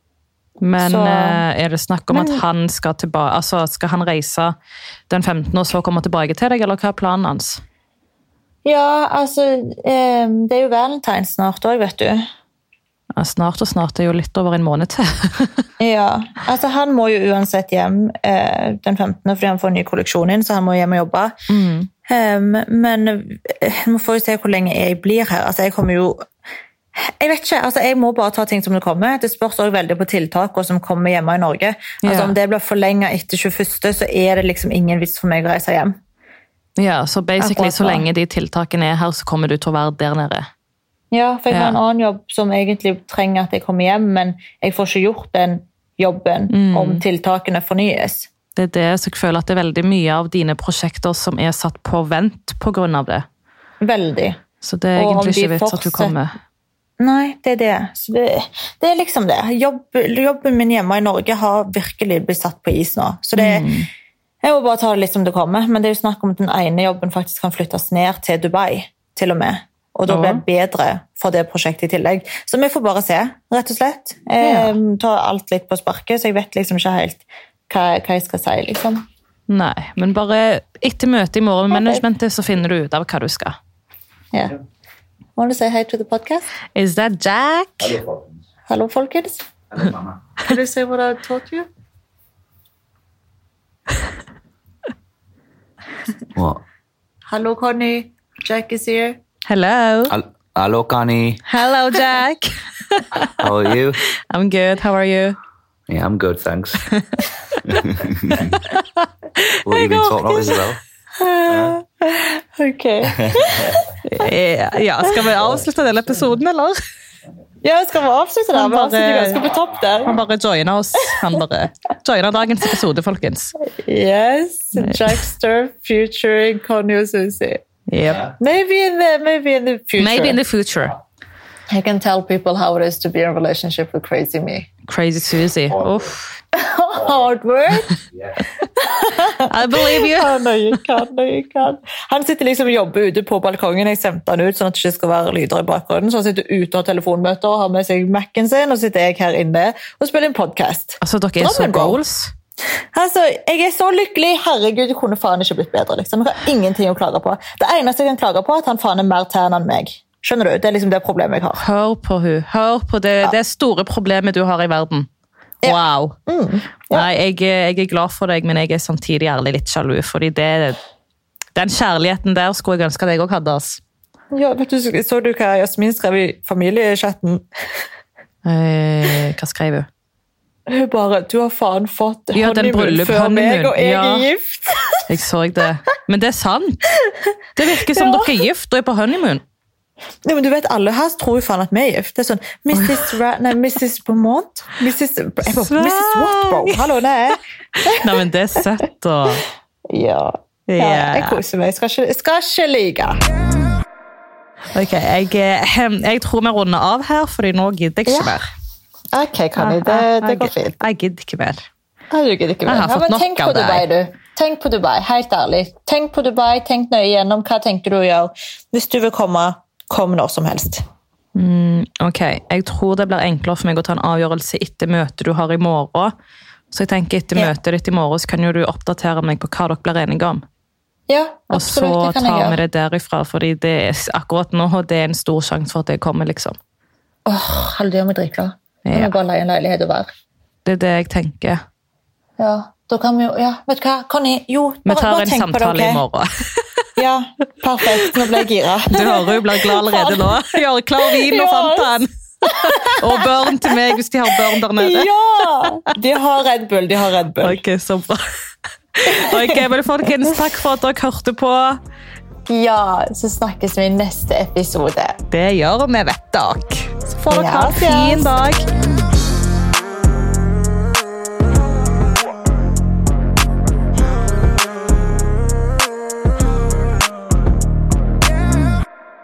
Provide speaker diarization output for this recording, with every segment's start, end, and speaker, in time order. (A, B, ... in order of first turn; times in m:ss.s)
0:00.6-0:04.6 A
0:00.8-0:01.4 B
0:02.1-0:02.4 B
0:05.1-0:07.6 A
0:08.6-0:12.3 B
0:13.1-0:15.6 A
0:15.8-0:21.4 B
0:21.5-0:21.9 A
0:22.1-0:26.3 B
0:27.0-0:36.0 B
0:32.0-0:32.3 A
0:36.8-0:40.5 A
0:37.4-0:38.0 B
0:41.1-0:48.3 B
0:41.5-0:41.8 A
0:46.5-0:47.0 A
0:48.6-0:53.3 A
0:53.8-0:54.4 B
0:54.6-0:56.4 A
0:55.0-0:56.1 B
0:57.0-1:03.7 B
1:03.4-1:03.9 A
1:04.4-1:19.0 B
1:10.1-1:10.4 A
1:14.4-1:14.8 A
1:19.5-1:23.6 A
1:21.7-1:22.0 B
1:25.4-1:26.5 B
1:26.8-1:28.0 A
1:28.7-1:29.4 B
1:29.8-1:30.0 C
1:30.4-1:31.7 B
1:36.4-1:36.6 C
1:37.3-1:39.2 B
1:39.5-1:40.1 A
1:40.1-1:41.4 C
1:41.5-1:43.3 A
1:43.4-1:44.0 C
1:44.3-1:45.4 A
1:45.9-1:46.9 C
1:46.9-1:47.8 A
1:47.7-1:48.6 C
1:48.6-1:50.6 A
1:49.7-1:50.8 C
1:51.2-1:54.0 B
1:54.0-1:56.8 A
1:57.6-2:00.2 B
1:58.5-1:59.4 A
2:00.0-2:03.5 A
2:03.7-2:07.6 B
2:04.8-2:05.2 A
2:07.9-2:08.3 A
2:08.4-2:10.4 B
2:10.0-2:11.0 A
2:11.7-2:14.7 B
2:14.9-2:16.4 A
2:16.5-2:18.0 B
2:18.6-2:32.0 B
2:19.3-2:20.8 A
2:31.0-2:32.3 A
2:32.9-2:41.6 B
2:41.6-2:45.1 A
2:45.6-2:47.1 B
2:45.6-2:46.2 A
2:46.9-2:50.8 A
2:51.6-2:53.8 A
2:54.3-2:57.5 B
2:58.4-2:59.9 A
3:00.7-3:05.0 B
3:02.4-3:04.3 A
3:05.1-3:06.8 A
3:07.6-3:09.4 A
3:07.8-3:08.4 B
3:10.2-3:18.2 B
3:12.8-3:13.0 A
3:15.6-3:16.9 A
3:17.8-3:19.4 A
3:19.9-3:23.2 B
3:20.7-3:21.4 A
3:24.7-3:28.4 A
3:28.1-3:28.4 B
3:29.1-3:30.8 B
3:29.6-3:31.6 A
3:32.1-3:40.8 B
3:32.7-3:33.9 A
3:41.4-3:46.1 A
3:46.7-3:50.4 A
3:51.1-3:52.6 B
3:51.5-3:56.6 A
3:57.3-4:00.1 B
3:58.8-3:59.1 A
4:00.6-4:01.6 A
4:02.4-4:06.0 B
4:04.9-4:06.8 A
4:07.0-4:11.9 B
4:08.0-4:15.1 A
4:12.5-4:13.3 B
4:14.7-4:17.6 B
4:17.4-4:18.2 A
4:18.9-4:21.8 A
4:19.1-4:19.7 B
4:22.5-4:25.2 B
4:25.3-4:28.7 A
4:27.3-4:28.3 B